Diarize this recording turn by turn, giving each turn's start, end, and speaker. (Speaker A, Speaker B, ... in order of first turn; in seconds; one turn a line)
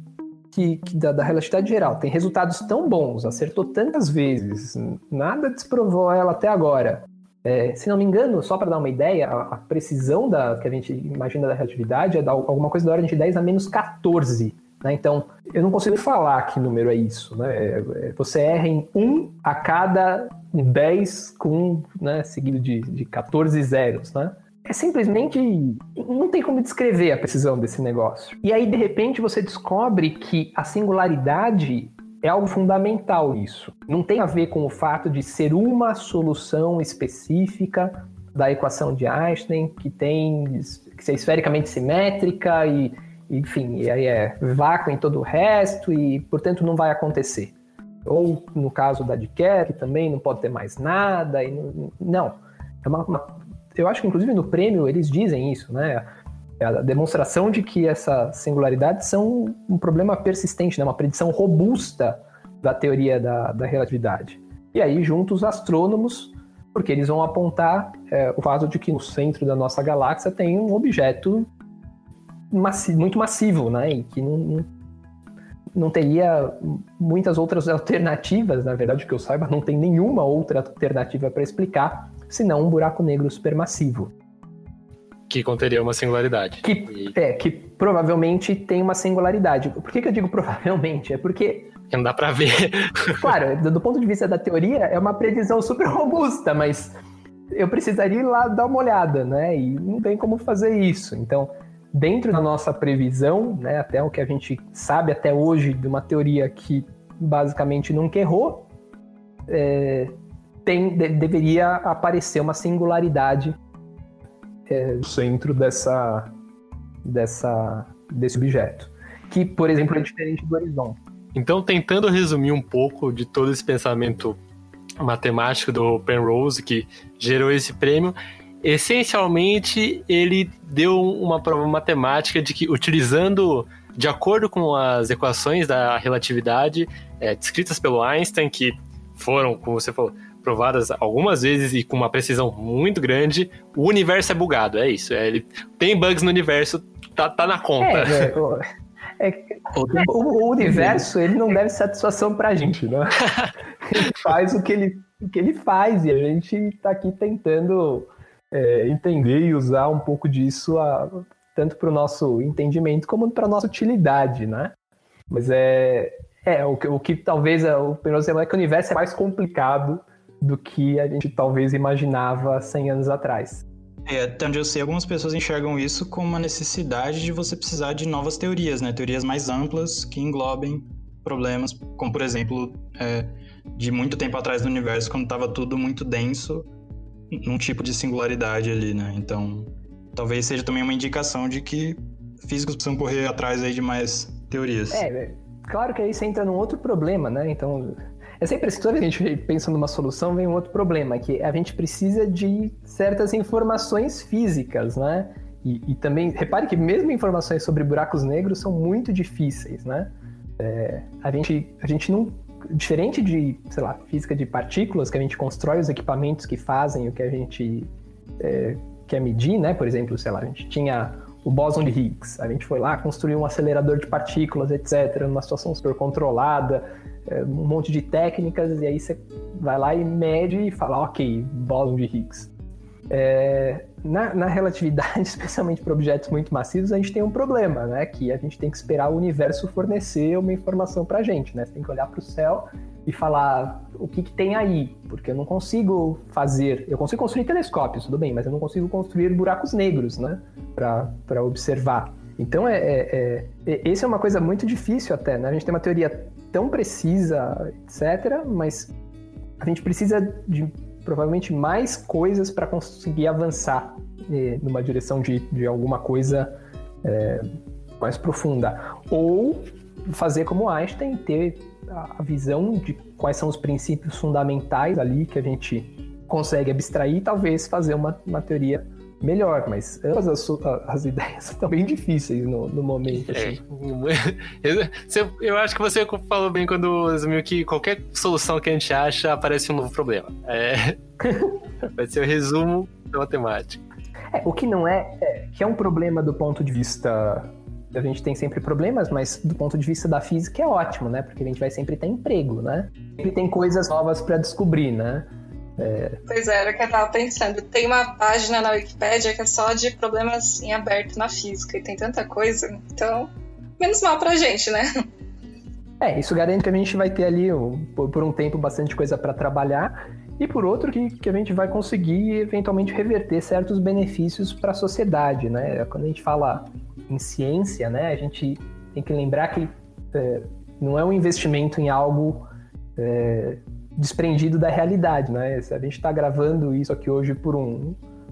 Speaker A: 0.5-56.1
Speaker A: 56.6-71.5
Speaker A: 72.5-74.7
Speaker A: 75.7-84.1
Speaker B: 85.3-87.1
Speaker A: 86.6-91.7
Speaker B: 91.9-93.2
Speaker A: 93.2-97.0
Speaker A: 97.5-108.7
Speaker A: 109.5-113.6
Speaker A: 114.7-116.3
Speaker A: 117.0-121.0
Speaker B: 121.3-124.4
Speaker B: 125.0-148.3
Speaker A: 147.8-148.6
Speaker A: 149.2-153.2
Speaker A: 153.8-164.7
Speaker A: 165.3-173.6
Speaker C: 174.1-186.7
Speaker C: 187.3-195.0
Speaker A: 194.9-232.5
Speaker A: 233.1-258.9
Speaker A: 259.6-283.6
Speaker B: 283.1-291.0
Speaker A: 291.2-291.5
Speaker B: 291.9-293.8
Speaker A: 294.3-306.2
Speaker D: 306.3-315.0
Speaker A: 316.0-338.0